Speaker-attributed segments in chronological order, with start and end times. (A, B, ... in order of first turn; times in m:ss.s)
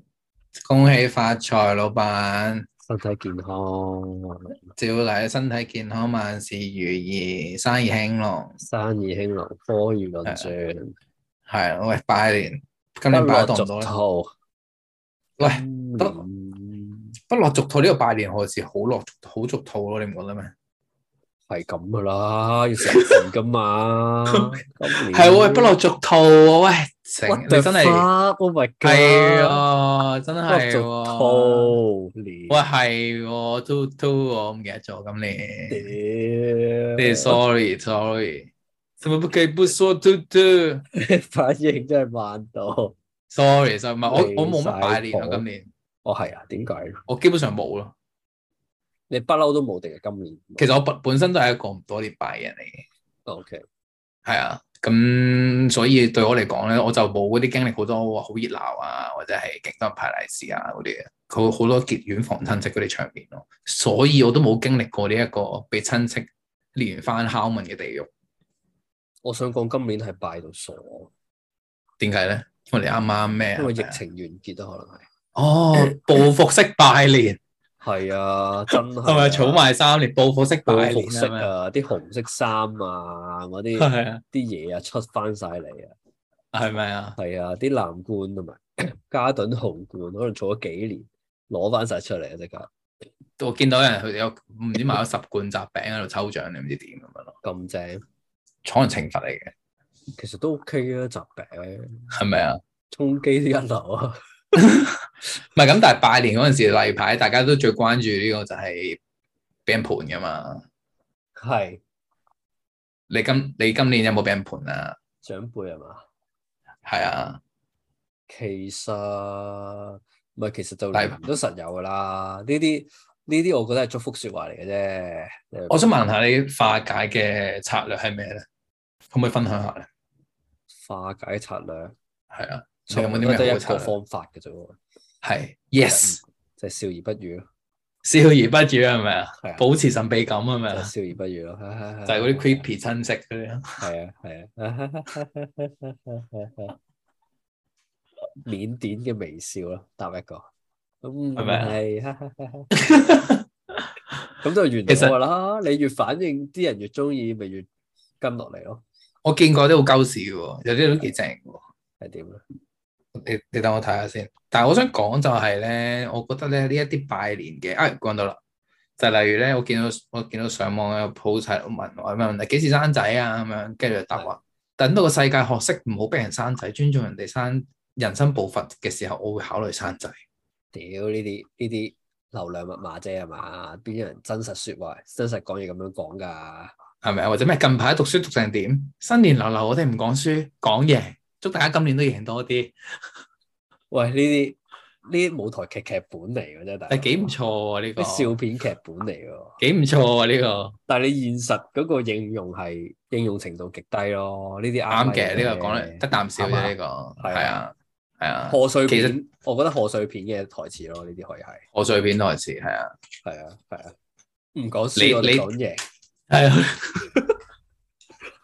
0:00.6-0:02.7 A
0:02.9-0:04.6 B
0:04.8-0:08.6 A
0:08.6-0:11.0 B
0:10.2-0:10.5 A
0:11.5-0:13.9 A
0:13.1-0:14.3 B
0:15.4-0:16.2 A
0:15.4-0:17.1 B
0:17.3-0:20.5 A
0:21.5-0:25.8 B
0:25.1-0:28.1 A
0:27.3-0:29.6 B
0:28.8-0:31.8 A
0:30.5-0:32.6 B
0:32.5-0:35.9 A
0:35.7-0:37.4 B
0:37.0-0:38.5 A
0:39.0-0:40.8 A
0:41.0-0:43.0 B
0:43.3-0:45.7 A
0:44.1-0:45.4 B
0:46.0-0:47.0 B
0:47.1-0:47.9 A
0:49.1-0:50.7 B
0:50.6-0:52.8 A
0:53.3-0:53.6 B
0:54.2-1:08.1 A
1:09.2-1:11.1 B
1:12.0-1:14.0 A
1:13.6-1:15.1 B
1:15.4-1:17.4 A
1:17.8-1:19.7 B
1:18.7-1:21.5 A
1:20.7-1:25.9 B
1:23.8-1:24.2 A
1:26.5-1:27.2 A
1:27.2-1:32.7 B
1:33.4-1:37.4 A
1:37.4-1:38.0 B
1:38.6-1:39.5 A
1:40.2-1:42.2 B
1:42.1-1:42.6 A
1:42.9-1:44.2 B
1:44.6-1:45.0 A
1:45.5-1:49.0 A
1:49.7-1:50.6 A
1:51.4-1:51.8 B
1:53.1-1:55.0 A
1:55.2-1:56.0 B
1:56.8-1:57.4 A
1:58.3-2:05.9 B
2:00.9-2:01.2 A
2:05.7-2:08.4 A
2:09.1-2:09.9 A
2:10.8-2:11.9 B
2:12.3-2:14.0 A
2:12.9-2:14.8 B
2:15.2-2:16.2 A
2:15.9-2:17.5 B
2:18.0-2:20.9 A
2:19.4-2:19.7 B
2:20.7-2:22.6 B
2:22.1-2:23.9 A
2:23.8-2:26.8 B
2:28.4-2:30.5 B
2:31.0-2:32.7 B
2:31.4-2:31.8 A
2:32.7-2:33.4 A
2:34.4-2:37.7 B
2:34.9-2:35.2 A
2:38.2-2:38.8 B
2:39.2-2:41.6 A
2:42.0-2:42.4 B
2:43.2-2:48.4 A
2:49.0-3:00.2 A
3:00.7-3:06.7 B
3:07.0-3:12.8 A
3:13.9-3:17.3 B
3:16.9-3:18.4 A
3:18.0-3:19.6 B
3:19.6-3:20.8 A
3:20.9-3:27.6 B
3:24.9-3:29.2 A
3:28.5-3:31.7 B
3:31.8-3:32.9 A
3:33.2-3:34.0 B
3:34.6-3:35.8 B
3:35.0-3:35.5 A
3:36.3-3:37.1 A